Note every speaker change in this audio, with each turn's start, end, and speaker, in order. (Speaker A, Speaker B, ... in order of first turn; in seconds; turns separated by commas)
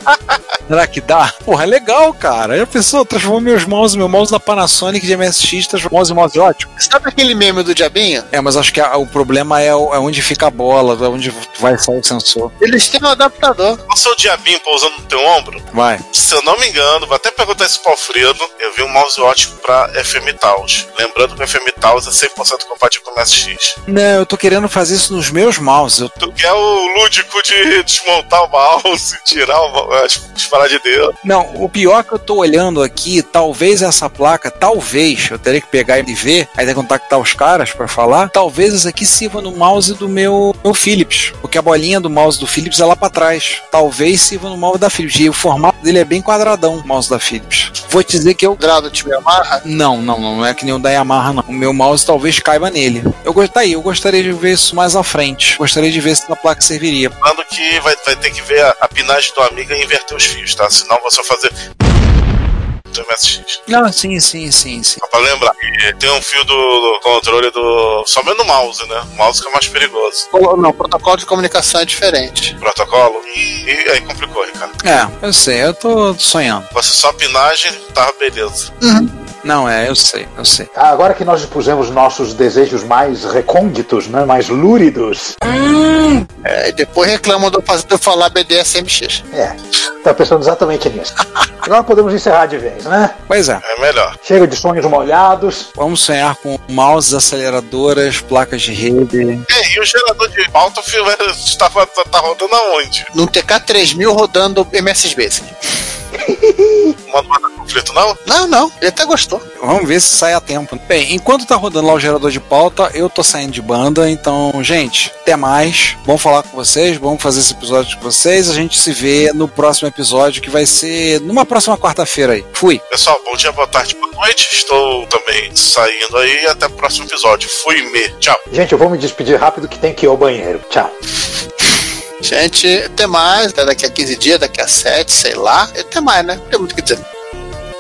Speaker A: 0.7-6.7, Speaker B: 6.8-8.3, Speaker A: 8.3-12.5, Speaker B: 12.6-13.8, Speaker C: 13.9-23.8, Speaker A: 15.7-16.0, Speaker A: 23.9-26.1, Speaker C: 26.2-31.1, Speaker A: 31.2-48.6, Speaker B: 48.6-49.6, Speaker A: 49.6-57.1, Speaker C: 57.2-61.5, Speaker C: 62.9-63.6, Speaker A: 63.7-65.0, Speaker C: 65.0-70.3, Speaker B: 70.3-72.5, Speaker C: 72.6-74.7, Speaker A: 74.8-76.7, Speaker C: 76.7-78.7, Speaker B: 78.8-79.1, Speaker A: 79.4-80.7, Speaker D: 80.7-85.4, Speaker B: 86.5-89.2, Speaker D: 89.3-91.1, Speaker D: 91.6-93.2, Speaker A: 93.3-93.6, Speaker C: 93.6-94.2, Speaker D: 94.2-95.7, Speaker A: 95.8-99.5, Speaker C: 99.5-103.1, Speaker B: 103.1-105.5, Speaker C: 107.1-108.2, Speaker B: 108.3-109.4, Speaker A: 109.6-122.8, Speaker C: 122.9-128.4, Speaker D: 128.5-130.9, Speaker B: 132.2-137.0